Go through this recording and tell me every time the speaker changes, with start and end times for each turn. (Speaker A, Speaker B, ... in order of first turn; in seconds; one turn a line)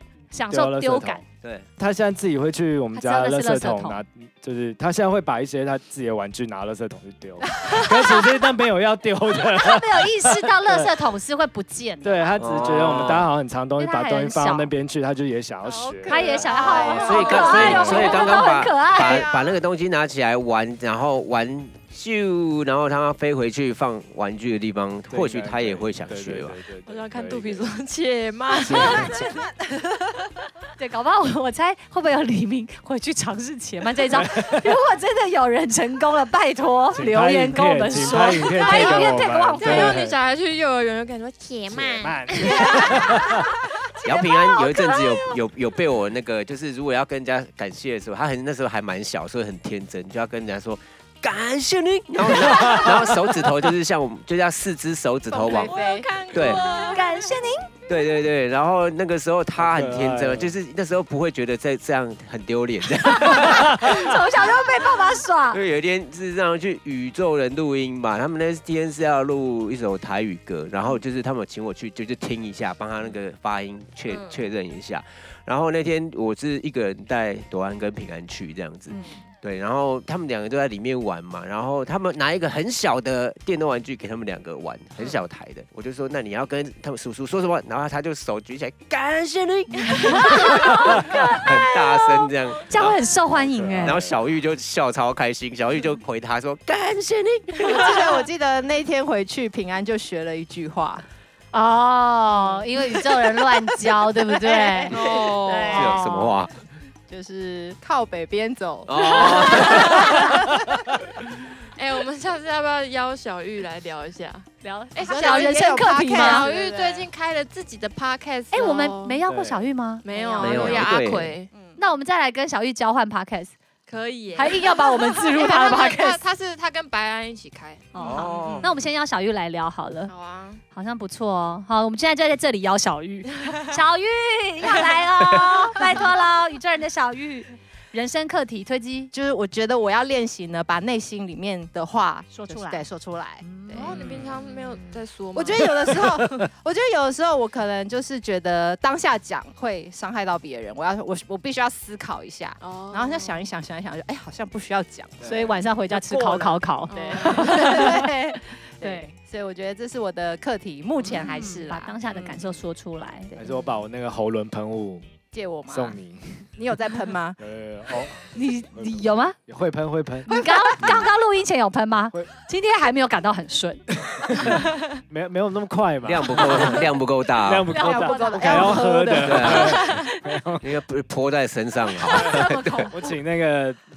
Speaker A: 0.3-1.2
Speaker B: 0.5-1.2
Speaker C: 1.4-1.7
Speaker B: 1.8-10.9
Speaker A: 2.9-4.0
Speaker A: 9.4-12.2
Speaker B: 12.0-18.1
Speaker C: 12.4-13.3
Speaker A: 13.8-14.7
Speaker D: 15.7-18.3
Speaker A: 16.0-19.3
Speaker E: 16.4-18.5
Speaker C: 16.9-26.6
Speaker D: 19.0-19.3
Speaker B: 25.1-27.7
Speaker D: 26.9-29.3
Speaker B: 28.6-29.2
Speaker A: 28.8-29.3
Speaker A: 30.8-40.0
Speaker B: 34.1-34.8
Speaker B: 36.9-40.2
Speaker D: 38.0-43.4
Speaker C: 41.7-42.1
Speaker B: 42.0-43.5
Speaker C: 42.9-43.2
Speaker C: 44.0-55.7
Speaker A: 44.6-45.0
Speaker B: 52.5-52.9
Speaker E: 55.3-56.1
Speaker D: 55.5-57.4
Speaker C: 56.3-56.7
Speaker A: 56.4-57.7
Speaker C: 57.9-64.1
Speaker B: 59.6-60.5
Speaker A: 63.0-65.6
Speaker C: 65.5-93.0
Speaker D: 74.1-74.4
Speaker D: 78.9-79.2
Speaker A: 90.0-94.0
Speaker B: 93.4-94.2
Speaker C: 93.8-98.2
Speaker E: 97.6-101.0
Speaker A: 101.5-106.5
Speaker E: 102.8-105.2
Speaker D: 104.9-105.9
Speaker C: 105.0-106.5
Speaker A: 107.1-107.8
Speaker E: 107.8-110.6
Speaker C: 108.8-110.3
Speaker D: 111.8-119.2
Speaker A: 114.6-116.5
Speaker E: 115.0-117.1
Speaker A: 118.5-120.9
Speaker B: 119.3-119.7
Speaker D: 120.0-121.8
Speaker E: 120.1-120.4
Speaker C: 120.4-121.4
Speaker A: 121.8-123.5
Speaker D: 123.9-128.7
Speaker A: 124.3-126.2
Speaker A: 127.9-130.1
Speaker C: 128.0-128.7
Speaker D: 130.1-130.6
Speaker A: 130.7-139.1
Speaker E: 139.1-144.0
Speaker A: 142.3-142.8
Speaker A: 143.4-144.0
Speaker D: 143.7-146.0
Speaker E: 144.9-162.4
Speaker B: 146.1-146.4
Speaker D: 152.6-153.5
Speaker B: 155.2-155.5
Speaker A: 155.2-159.1
Speaker D: 156.9-158.0
Speaker A: 161.1-163.3
Speaker E: 163.3-163.7
Speaker B: 163.3-165.1
Speaker E: 165.3-166.0
Speaker B: 165.7-166.5
Speaker E: 166.6-167.4
Speaker B: 167.4-170.3
Speaker A: 168.3-169.4
Speaker A: 170.3-173.8
Speaker E: 170.3-170.9
Speaker B: 173.9-176.9
Speaker C: 174.4-174.7
Speaker C: 176.0-177.7
Speaker A: 176.4-176.8
Speaker B: 177.4-180.7
Speaker A: 177.7-178.9
Speaker E: 177.7-180.0
Speaker C: 179.2-180.0
Speaker A: 179.5-180.1
Speaker C: 180.6-182.9
Speaker A: 182.1-183.1
Speaker B: 182.4-183.8